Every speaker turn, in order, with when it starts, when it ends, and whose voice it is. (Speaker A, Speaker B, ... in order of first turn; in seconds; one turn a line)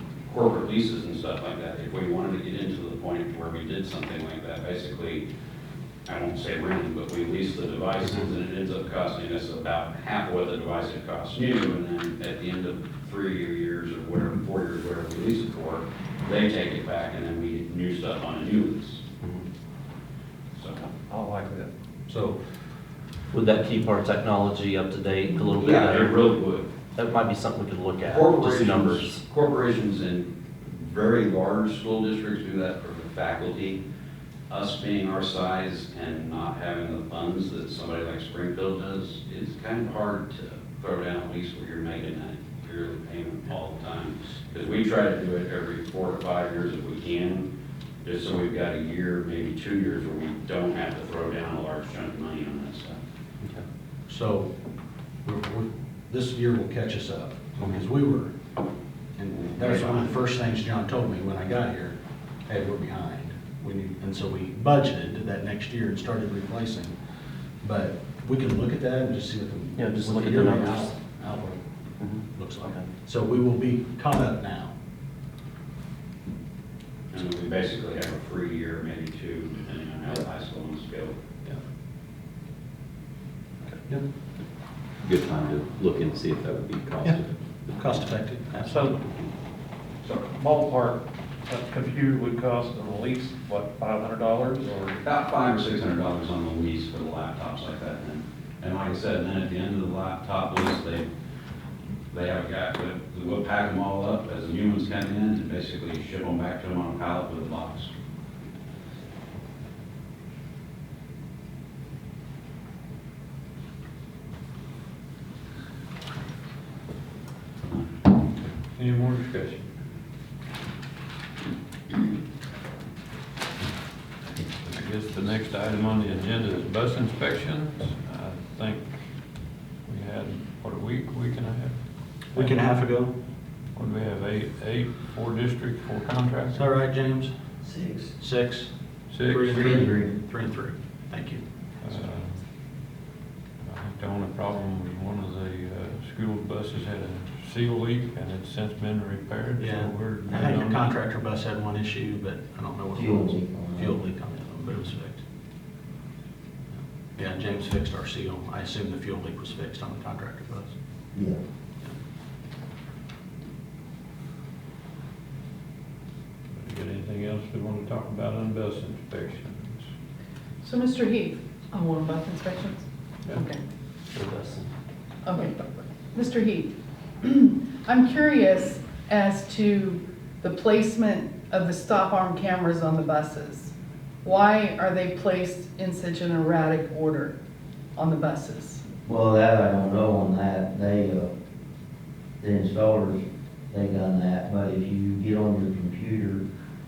Speaker A: 0.3-5.2
Speaker A: 6.1-19.0
Speaker A: 20.6-20.8
Speaker B: 21.0-21.7
Speaker A: 22.1-22.4
Speaker C: 23.3-26.0
Speaker A: 25.6-26.7
Speaker C: 27.0-28.9
Speaker A: 28.0-33.8
Speaker A: 34.5-47.5
Speaker A: 48.0-53.0
Speaker D: 54.1-54.5
Speaker D: 55.2-58.3
Speaker D: 59.2-62.0
Speaker D: 62.5-67.0
Speaker D: 67.6-71.6
Speaker E: 69.8-70.9
Speaker E: 72.0-72.8
Speaker D: 72.2-74.7
Speaker A: 77.1-81.1
Speaker E: 85.0-88.0
Speaker D: 87.0-89.3
Speaker B: 88.6-89.0
Speaker B: 90.0-95.0
Speaker A: 95.0-101.1
Speaker A: 102.1-107.9
Speaker F: 118.7-119.7
Speaker F: 124.6-128.9
Speaker F: 129.9-131.8
Speaker F: 132.3-132.6
Speaker D: 132.3-133.1
Speaker F: 133.8-136.7
Speaker D: 136.5-137.4
Speaker D: 138.2-138.7
Speaker F: 139.1-139.9
Speaker D: 139.2-141.4
Speaker G: 139.5-140.1
Speaker F: 141.8-142.4
Speaker F: 143.7-150.9
Speaker D: 149.6-155.2
Speaker G: 152.9-153.9
Speaker D: 157.2-160.8
Speaker G: 161.1-161.4
Speaker F: 166.5-169.9
Speaker H: 170.6-173.6
Speaker E: 174.1-174.7
Speaker H: 175.2-187.4
Speaker H: 188.0-188.8
Speaker G: 189.1-191.3
Speaker G: 192.4-196.4